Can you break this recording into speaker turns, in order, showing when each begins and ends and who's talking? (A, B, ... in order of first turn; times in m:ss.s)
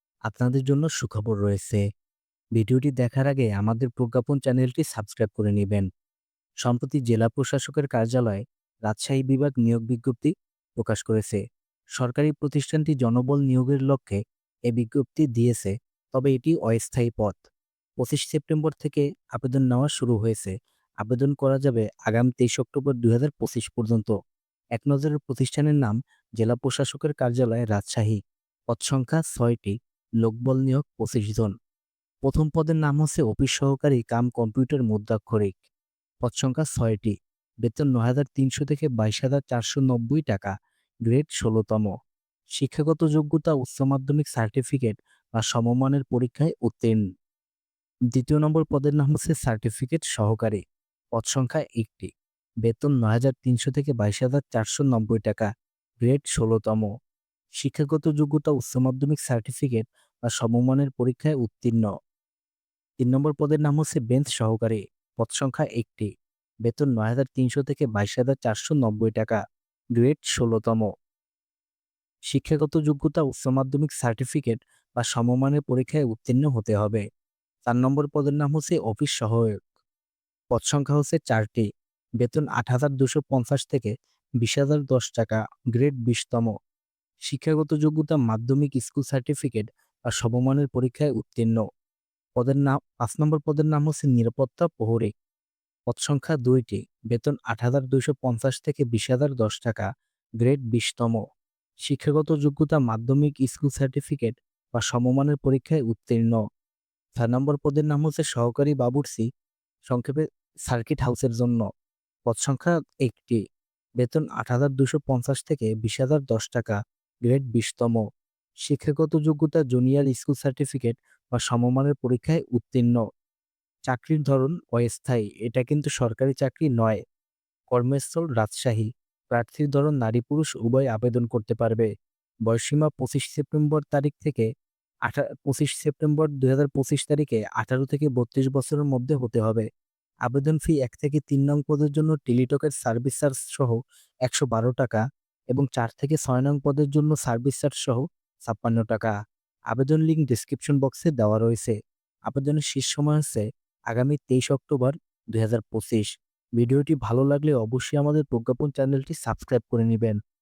0:00.3-0:01.8 A
0:02.6-0:05.9 A
0:06.6-0:11.4 A
0:12.0-0:17.4 A
0:18.0-0:24.1 A
0:24.8-0:28.2 A
0:28.7-0:31.5 A
0:32.2-0:35.6 A
0:36.2-0:40.5 A
0:41.1-0:41.9 A
0:42.6-0:47.0 A
0:48.1-0:50.6 A
0:51.2-0:52.1 A
0:52.6-0:55.5 A
0:56.0-0:56.9 A
0:57.6-1:01.9 A
1:03.0-1:06.1 A
1:06.6-1:09.4 A
1:10.0-1:10.9 A
1:12.3-1:17.0 A
1:17.7-1:19.6 A
1:20.5-1:21.7 A
1:22.2-1:26.5 A
1:27.3-1:31.6 A
1:32.4-1:35.1 A
1:35.9-1:39.9 A
1:40.4-1:41.2 A
1:41.9-1:46.4 A
1:47.2-1:49.3 A
1:49.9-1:51.7 A
1:52.3-1:53.4 A
1:54.0-1:58.0 A
1:58.6-2:03.0 A
2:03.9-2:07.0 A
2:07.7-2:11.9 A
2:12.5-2:14.5 A
2:15.1-2:19.7 A
2:20.3-2:23.8 A
2:24.3-2:29.1 A
2:29.7-2:31.8 A
2:32.3-2:36.1 A
2:36.6-2:40.2 A